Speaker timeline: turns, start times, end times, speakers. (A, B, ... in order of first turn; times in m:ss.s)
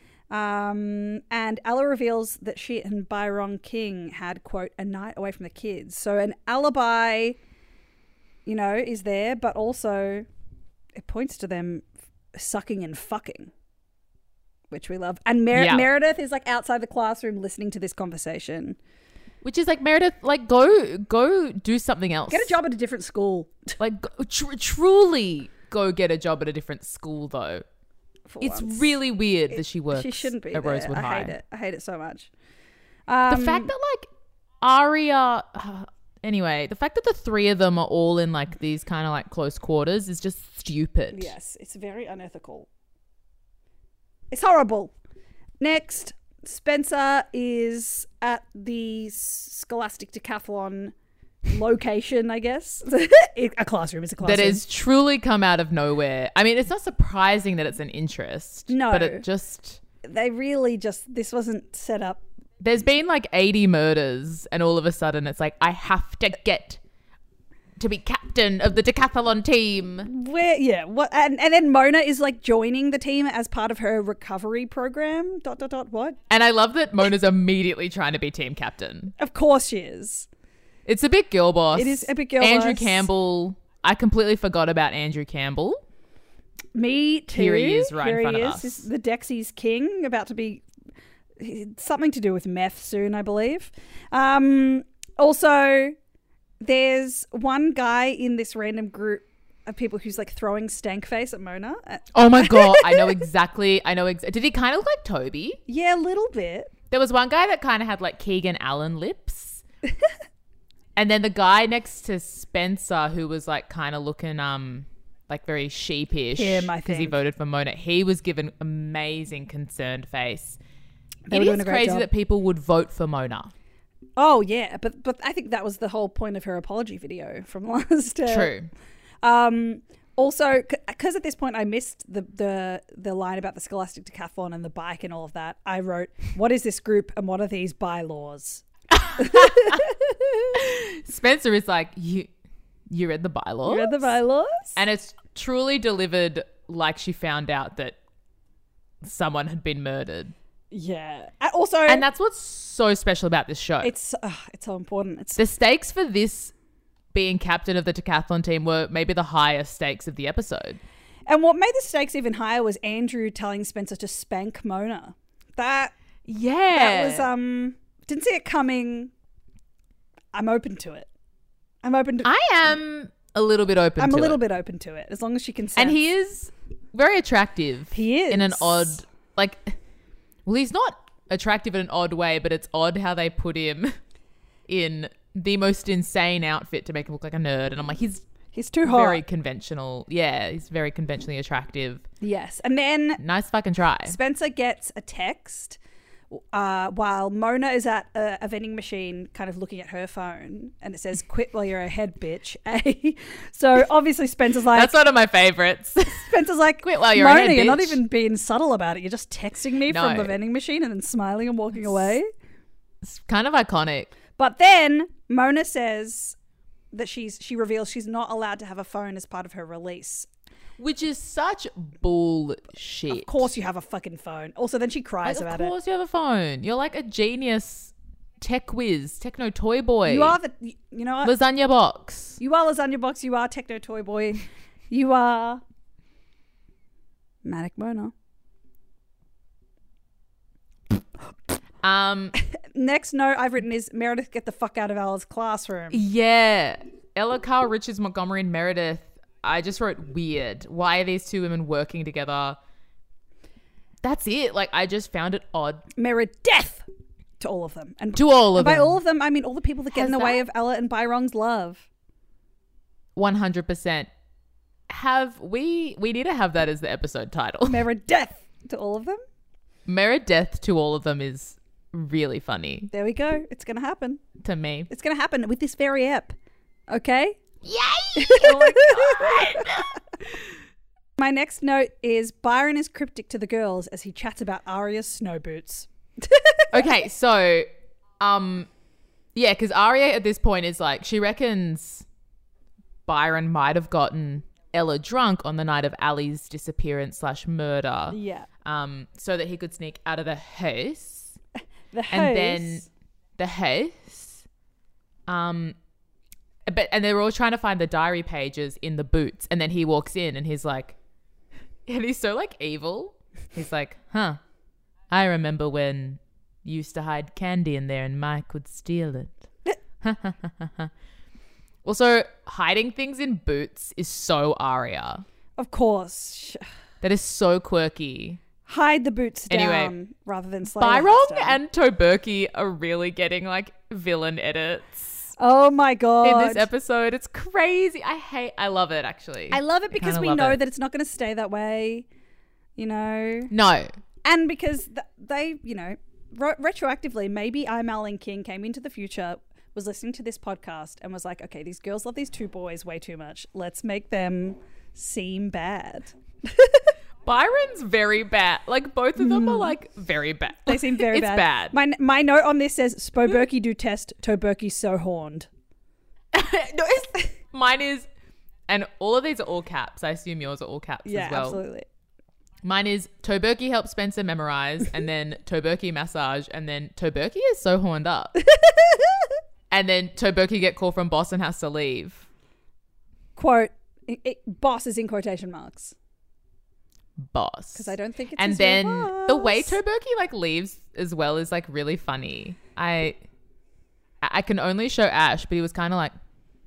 0:00.3-0:07.4 A
0:08.5-0:10.3 A
0:11.0-0:11.8 A
0:12.4-0:13.5 A
0:14.7-0:18.8 A
0:15.5-0:15.9 B
0:19.4-0:22.6 B
0:22.3-0:23.8 A
0:23.8-0:27.6 B
0:28.3-0:29.0 A
0:28.4-0:31.4 B
0:29.9-0:32.3 A
0:33.1-0:33.7 A
0:33.3-0:34.1 B
0:34.6-0:41.3 B
0:41.1-0:42.7 A
0:44.3-0:44.9 A
0:45.6-0:50.9 A
0:51.5-0:54.6 A
0:54.2-0:59.8 B
0:58.7-0:59.2 A
1:00.0-1:02.2 A
1:02.6-1:06.8 B
1:07.8-1:10.1 B
1:10.1-1:16.2 A
1:16.3-1:19.1 B
1:19.2-1:20.3 A
1:20.9-1:25.8 B
1:21.7-1:23.1 A
1:26.8-1:30.6 A
1:27.3-1:28.9 B
1:31.4-1:36.0 A
1:36.6-1:43.2 A
1:42.1-1:45.6 B
1:45.7-1:46.7 A
1:46.9-1:49.6 B
1:51.0-2:00.6 B
1:56.4-1:57.2 A
2:01.3-2:02.1 A
2:01.3-2:03.5 B
2:04.2-2:08.5 A
2:08.3-2:08.7 B
2:09.2-2:20.5 A
2:19.0-2:19.8 B
2:20.5-2:22.3 B
2:22.9-2:24.1 B
2:23.7-2:24.8 A
2:24.8-2:28.0 B
2:29.0-2:30.3 B
2:30.7-2:32.0 A
2:31.9-2:33.9 B
2:33.8-2:35.4 A
2:35.4-2:36.5 B
2:37.1-2:40.8 B
2:41.3-2:45.9 A
2:46.3-2:47.3 B
2:46.7-2:49.1 A
2:50.3-2:51.1 A
2:51.8-2:52.3 A
2:52.2-2:54.4 B
2:54.0-2:56.0 A
2:55.8-2:59.8 B
2:57.9-2:59.0 A
3:00.5-3:04.0 B
3:04.7-3:08.3 B
3:08.5-3:09.2 A
3:08.8-3:12.1 B
3:12.2-3:13.2 A
3:13.2-3:14.2 B
3:14.0-3:15.8 A
3:16.3-3:25.0 A
3:24.7-3:28.0 B
3:26.1-3:32.3 A
3:29.9-3:30.4 B
3:33.0-3:34.1 B
3:34.4-3:36.4 A
3:36.9-3:40.3 A
3:40.8-3:43.5 B
3:43.1-3:45.7 A
3:45.2-3:50.4 B
3:50.0-3:51.4 A
3:51.2-3:52.4 B
3:52.4-3:55.6 A
3:57.4-3:58.1 A
4:01.8-4:02.4 B
4:02.6-4:06.0 A
4:05.9-4:12.6 B
4:14.0-4:15.9 B
4:16.0-4:16.9 A
4:17.4-4:21.9 A
4:18.2-4:19.0 B
4:19.9-4:20.4 B
4:23.2-4:24.1 B
4:24.9-4:27.8 B
4:27.7-4:29.2 A
4:29.9-4:32.9 B
4:32.9-4:34.2 A
4:34.4-4:34.9 B
4:34.9-4:36.3 A
4:36.9-4:37.4 A
4:37.6-4:40.4 B
4:38.2-4:39.9 A
4:41.2-4:46.9 A
4:46.7-4:47.7 B
4:48.2-4:48.7 B
4:49.4-4:52.1 B
4:53.1-5:01.4 B
4:58.1-4:58.5 A
5:01.9-5:02.9 A
5:02.1-5:04.4 B
5:05.3-5:05.8 B
5:06.7-5:11.0 B
5:11.9-5:14.4 B
5:15.1-5:19.3 B
5:20.0-5:20.9 B
5:21.8-5:25.2 B
5:25.6-5:26.6 A
5:27.0-5:28.4 B
5:28.7-5:31.6 A
5:29.5-5:29.9 B
5:30.8-5:35.2 B
5:35.4-5:36.7 A
5:36.2-5:40.6 B
5:39.5-5:42.1 A
5:42.8-5:43.5 A
5:43.5-5:43.9 B
5:44.2-5:56.9 A
5:57.2-6:01.8 B
5:59.2-5:59.7 A
6:00.7-6:05.5 A
6:06.3-6:08.1 B
6:08.7-6:11.6 B
6:11.1-6:11.8 A
6:12.6-6:18.3 B
6:18.4-6:19.3 A
6:19.7-6:22.3 B
6:23.4-6:26.0 A
6:27.2-6:33.2 B
6:27.8-6:29.8 A
6:34.2-6:36.1 B